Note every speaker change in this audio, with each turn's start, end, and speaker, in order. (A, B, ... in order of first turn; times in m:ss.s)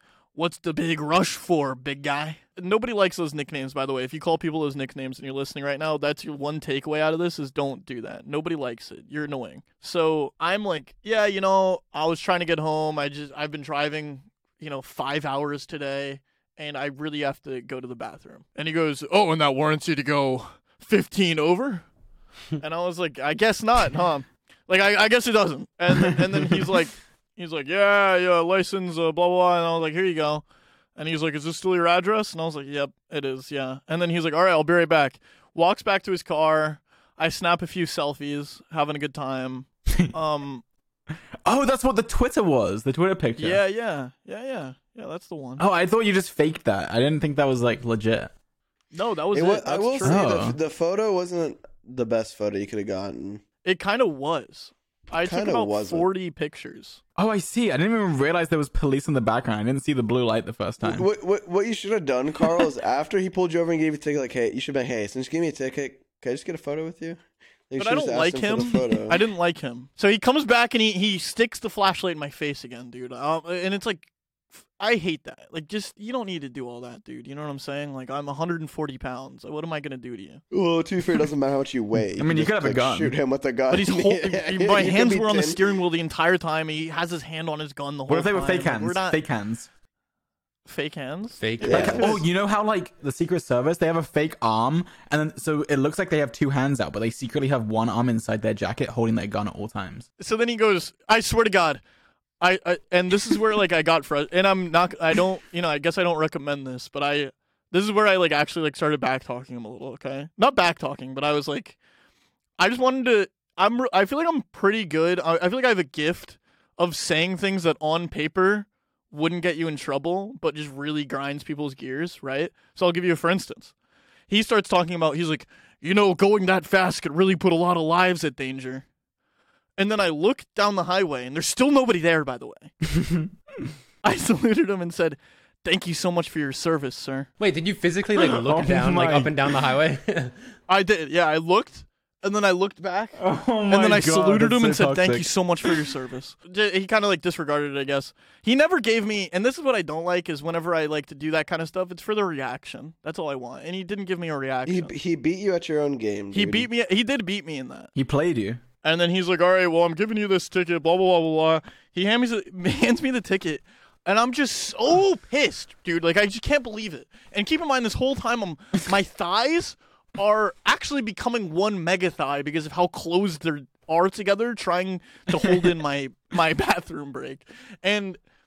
0:00.3-0:21.8 A
0:22.6-0:30.4 A
0:25.9-0:26.7 B
0:31.0-0:40.6 A
0:41.4-0:43.6 B
0:43.4-0:45.6 A
0:45.6-0:48.3 B
0:48.9-0:50.3 A
0:49.3-0:53.4 C
0:50.0-0:50.6 B
0:53.6-0:57.0 A
0:55.2-0:56.1 C
0:57.2-1:01.1 B
1:00.8-1:07.2 C
1:07.7-1:09.2 C
1:07.8-1:14.1 A
1:14.8-1:20.4 A
1:20.5-1:25.6 C
1:22.2-1:23.1 B
1:23.7-1:29.2 A
1:28.1-1:29.7 B
1:30.6-1:32.2 A
1:31.4-1:32.1 D
1:31.6-1:32.1 C
1:31.6-1:40.0 B
1:40.2-1:41.8 A
1:42.4-1:51.8 A
1:52.6-2:03.7 A
2:04.3-2:08.8 A
2:09.8-2:12.7 A
2:12.9-2:13.3 B
2:14.0-2:17.3 A
2:17.4-2:20.3 D
2:18.1-2:19.6 B
2:20.7-2:34.9 A
2:23.2-2:25.6 B
2:34.6-2:36.7 C
2:36.3-2:37.9 A
2:37.9-2:38.6 B
2:38.8-2:58.2 A